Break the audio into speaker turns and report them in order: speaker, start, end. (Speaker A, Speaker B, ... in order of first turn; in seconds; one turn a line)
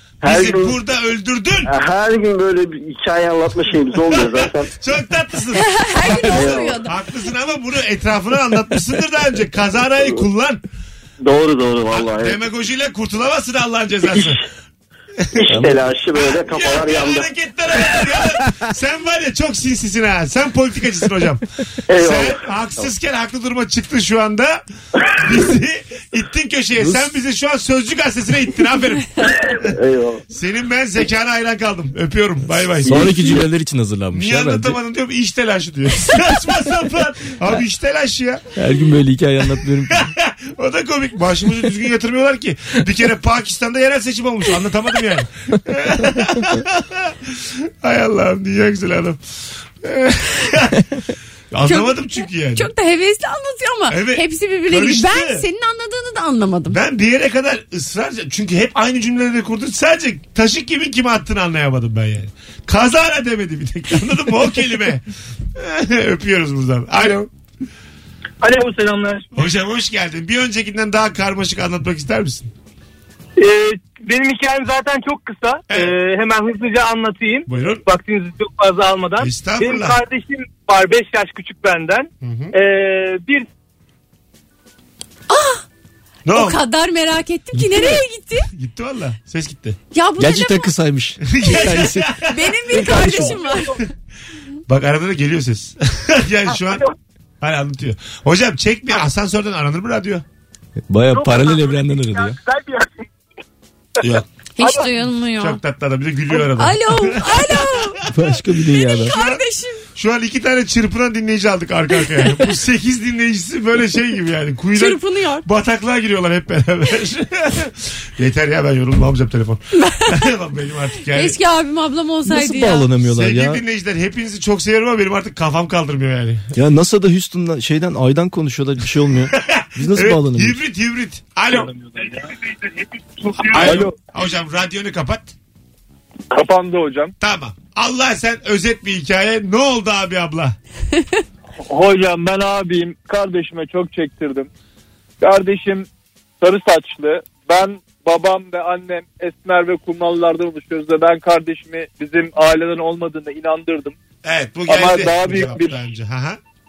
Speaker A: 0.2-0.7
Speaker B: 0.2-1.7
Speaker A: 1.7-4.7
Speaker B: 4.1-10.6
Speaker C: 5.6-7.0
Speaker A: 6.2-6.8
Speaker A: 11.2-12.4
Speaker B: 11.9-14.4
Speaker A: 14.1-14.4
Speaker A: 15.4-17.3
Speaker D: 15.5-15.9
Speaker B: 16.2-24.6
Speaker A: 21.9-22.3
Speaker B: 25.1-29.8
Speaker D: 26.8-27.1
Speaker A: 29.6-30.2
Speaker B: 30.3-33.4
Speaker D: 32.9-34.8
Speaker A: 32.9-33.2
Speaker B: 34.1-38.5
Speaker D: 38.6-40.0
Speaker B: 39.5-49.2
Speaker B: 49.8-50.8
Speaker B: 51.5-52.7
Speaker C: 51.6-56.8
Speaker B: 53.9-55.5
Speaker B: 56.7-65.0
Speaker B: 65.6-67.3
Speaker E: 68.4-69.3
Speaker B: 69.3-72.5
Speaker E: 73.4-83.5
Speaker B: 75.7-76.0
Speaker B: 77.5-77.8
Speaker B: 79.2-80.0
Speaker B: 82.2-82.5
Speaker C: 85.3-85.6
Speaker B: 86.3-86.6
Speaker C: 86.3-88.5
Speaker B: 87.7-88.0
Speaker B: 88.5-89.8
Speaker C: 89.9-90.7
Speaker D: 90.2-92.1
Speaker B: 91.2-92.6
Speaker C: 91.4-93.8
Speaker D: 92.7-93.4
Speaker B: 94.7-96.8
Speaker B: 97.4-100.2
Speaker D: 100.9-102.4
Speaker E: 101.1-103.0
Speaker B: 104.0-104.3
Speaker C: 104.6-105.6
Speaker B: 105.4-108.2
Speaker C: 106.3-108.0
Speaker D: 108.1-109.1
Speaker C: 108.7-109.8
Speaker B: 109.1-109.4
Speaker B: 110.0-121.4
Speaker C: 114.8-115.5
Speaker C: 119.8-120.2
Speaker C: 121.1-122.9
Speaker D: 122.3-123.6
Speaker B: 123.0-126.5
Speaker D: 126.5-130.6
Speaker B: 129.4-131.7
Speaker E: 133.3-133.9
Speaker B: 133.4-135.3
Speaker E: 136.3-137.1
Speaker B: 137.2-140.6
Speaker E: 141.6-144.5
Speaker E: 145.2-145.9
Speaker E: 146.4-153.9
Speaker B: 154.2-156.4
Speaker E: 154.7-155.8